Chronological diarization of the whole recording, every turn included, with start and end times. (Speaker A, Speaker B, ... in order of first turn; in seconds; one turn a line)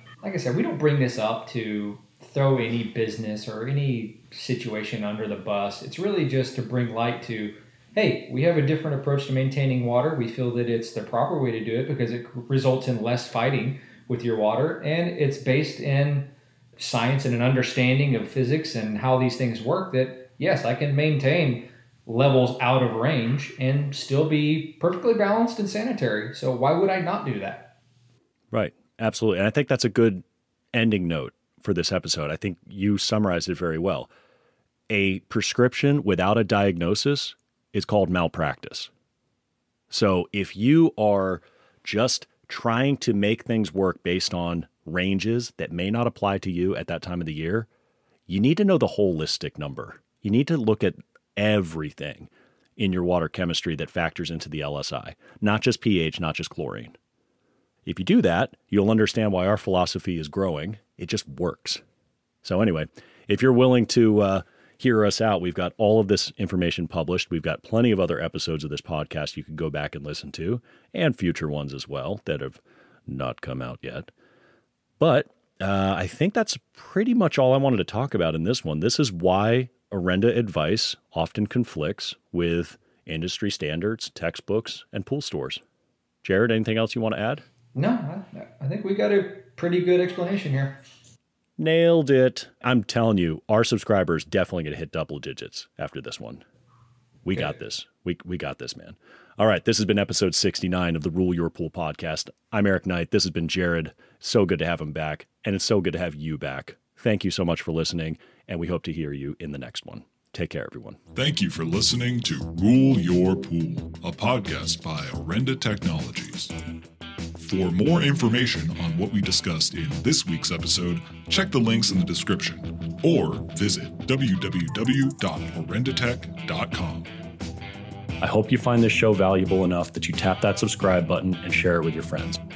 Speaker A: 0.2-27.7
Speaker B: 28.5-34.1
Speaker B: 34.9-38.9
Speaker B: 39.9-47.7
Speaker B: 48.3-57.0
Speaker B: 57.9-61.8
Speaker B: 62.4-74.1
Speaker B: 75.0-85.6
Speaker B: 86.2-87.4
Speaker A: 87.8-90.8
Speaker B: 91.6-96.4
Speaker B: 97.2-111.0
Speaker C: 111.2-116.5
Speaker C: 117.4-127.1
Speaker B: 128.2-132.4